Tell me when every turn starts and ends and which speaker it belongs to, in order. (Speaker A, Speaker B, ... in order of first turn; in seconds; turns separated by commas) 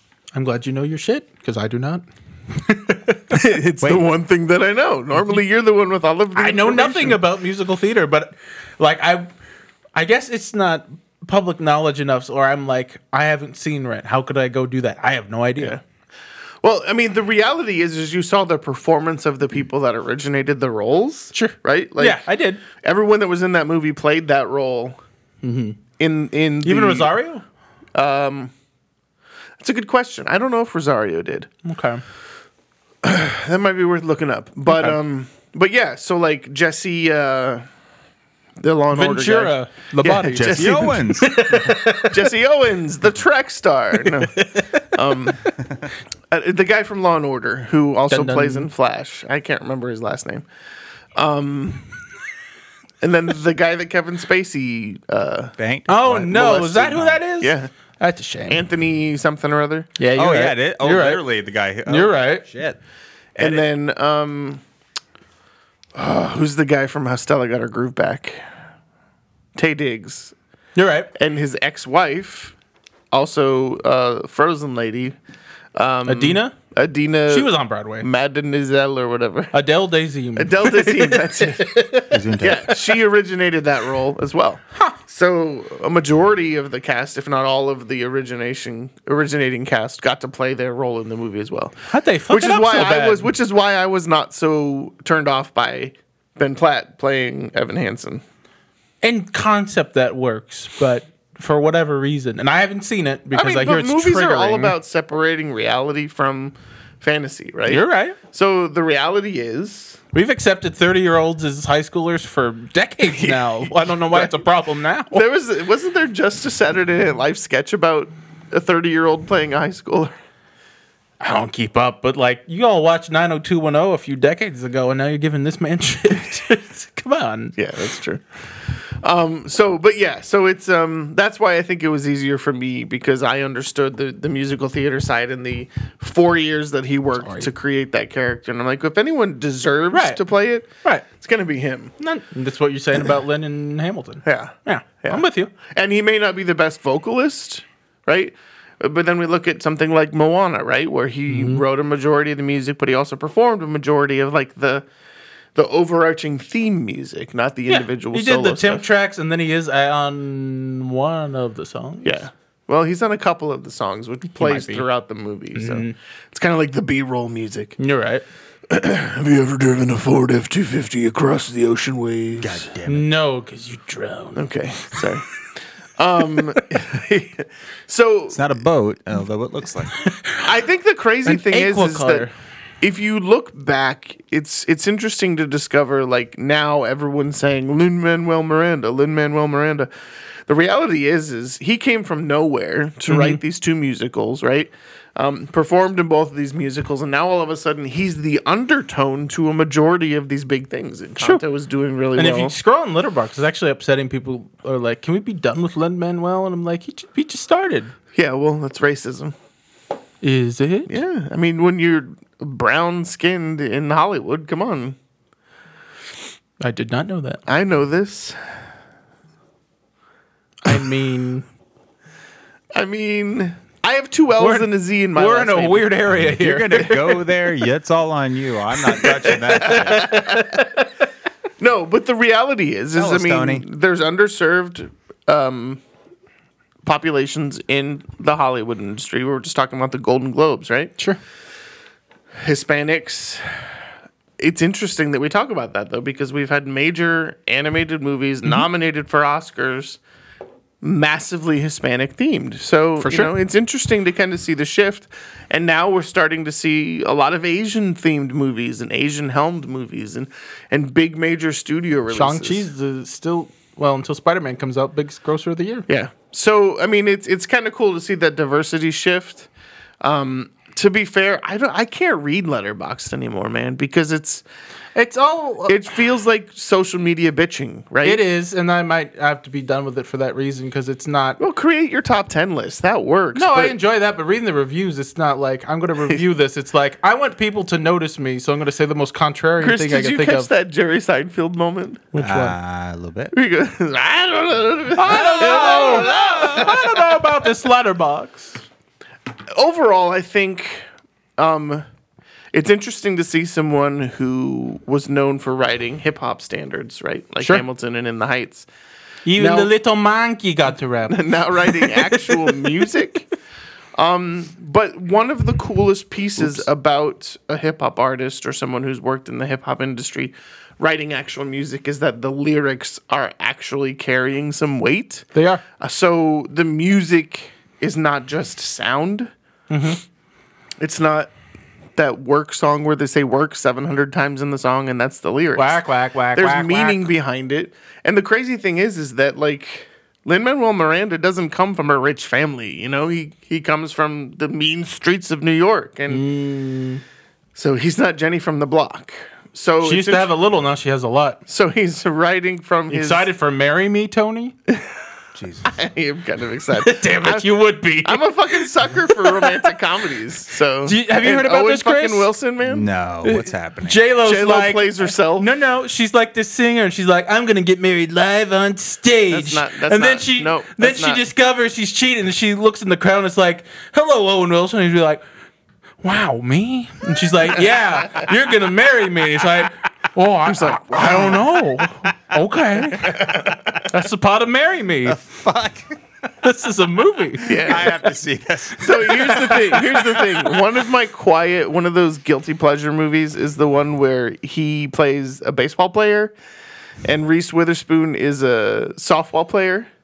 Speaker A: 0.3-3.4, Speaker B: 3.3-7.2, Speaker A: 5.2-5.4, Speaker A: 6.3-9.3, Speaker A: 9.9-15.8, Speaker B: 16.6-25.0, Speaker A: 21.3-22.6, Speaker A: 25.4-25.8, Speaker B: 26.0-27.1, Speaker A: 26.6-27.4, Speaker B: 27.9-28.5, Speaker B: 29.6-31.5, Speaker A: 31.6-32.0, Speaker B: 33.0-37.6, Speaker B: 38.6-45.5, Speaker A: 38.9-42.2, Speaker C: 40.3-41.3, Speaker A: 44.1-44.8, Speaker B: 46.3-50.4, Speaker A: 48.1-48.7, Speaker B: 51.1-51.8, Speaker B: 53.0-55.5, Speaker C: 55.6-57.2, Speaker A: 55.9-58.6, Speaker B: 56.3-57.7, Speaker B: 58.5-59.9, Speaker A: 60.0-61.2, Speaker C: 60.1-62.8, Speaker A: 61.9-62.4, Speaker B: 63.4-64.6, Speaker B: 66.0-68.4, Speaker B: 69.5-70.3, Speaker A: 70.8-71.1, Speaker B: 71.2-72.5, Speaker B: 73.1-75.2, Speaker B: 75.8-79.5, Speaker A: 76.0-76.5, Speaker A: 77.3-78.0, Speaker A: 79.5-82.2, Speaker B: 80.3-81.8, Speaker C: 82.1-82.7, Speaker B: 82.4-98.2, Speaker A: 91.9-93.3, Speaker A: 99.0-104.7, Speaker B: 103.3-110.0, Speaker A: 107.7-108.2, Speaker A: 110.1-115.2, Speaker B: 113.0-114.4, Speaker B: 115.1-120.1, Speaker A: 121.2-127.5, Speaker B: 127.6-141.9, Speaker A: 137.2-137.5, Speaker A: 139.9-140.2, Speaker A: 142.0-145.5, Speaker B: 144.2-154.8, Speaker A: 151.3-151.6, Speaker B: 155.5-158.8, Speaker A: 157.7-162.2, Speaker B: 162.0-167.8, Speaker A: 164.4-164.8, Speaker A: 165.5-165.9, Speaker A: 167.8-168.2, Speaker B: 168.7-172.7, Speaker C: 172.4-173.1, Speaker A: 172.8-175.0, Speaker B: 174.3-175.2, Speaker B: 176.0-178.5, Speaker C: 178.3-180.0, Speaker A: 180.0-180.2, Speaker B: 180.4-182.3, Speaker A: 181.2-182.3, Speaker B: 182.8-189.9, Speaker B: 190.5-202.5, Speaker A: 193.1-193.4, Speaker A: 202.2-207.9, Speaker B: 208.1-209.3, Speaker A: 210.2-211.0, Speaker B: 210.9-215.0, Speaker A: 216.6-217.4, Speaker B: 217.5-218.4, Speaker A: 220.6-221.4, Speaker B: 222.7-225.9, Speaker A: 224.4-227.2, Speaker C: 226.1-230.1, Speaker A: 229.1-230.8, Speaker B: 229.2-230.7, Speaker B: 231.6-235.8, Speaker C: 232.9-233.6, Speaker B: 236.8-240.9, Speaker B: 242.4-243.4, Speaker B: 244.4-250.0, Speaker B: 250.8-262.7, Speaker A: 253.0-253.3, Speaker A: 262.1-265.9, Speaker B: 265.9-269.5, Speaker B: 270.0-274.4, Speaker A: 274.9-275.9, Speaker B: 275.7-278.2, Speaker A: 278.0-281.4, Speaker B: 281.4-283.7, Speaker A: 283.3-290.5, Speaker B: 289.6-292.0, Speaker A: 292.1-292.6, Speaker C: 292.2-293.3, Speaker B: 293.3-297.2, Speaker A: 294.9-298.6, Speaker C: 295.4-296.7, Speaker B: 299.5-300.8, Speaker B: 301.4-301.8, Speaker B: 302.5-308.7, Speaker A: 309.2-312.7, Speaker B: 309.3-309.7, Speaker B: 311.1-313.3, Speaker B: 313.9-325.2, Speaker A: 325.3-325.6, Speaker B: 325.8-329.3, Speaker A: 329.7-330.0, Speaker B: 330.8-331.3, Speaker B: 331.9-335.8, Speaker A: 335.6-337.1, Speaker B: 336.3-346.2, Speaker A: 346.1-347.0, Speaker B: 347.6-350.3, Speaker A: 349.8-351.4, Speaker B: 351.5-353.3, Speaker A: 352.9-354.5, Speaker C: 355.3-355.8, Speaker B: 355.6-362.9, Speaker A: 356.8-359.7, Speaker A: 360.8-362.3, Speaker C: 362.6-364.0, Speaker A: 363.2-375.2, Speaker B: 364.2-365.5, Speaker B: 369.3-371.2, Speaker A: 376.0-385.2, Speaker B: 380.4-381.5, Speaker B: 383.0-383.8, Speaker C: 385.1-386.0, Speaker A: 386.4-387.9, Speaker B: 387.4-387.9, Speaker C: 387.5-390.3, Speaker B: 388.8-396.3, Speaker A: 389.2-389.6, Speaker B: 397.0-399.9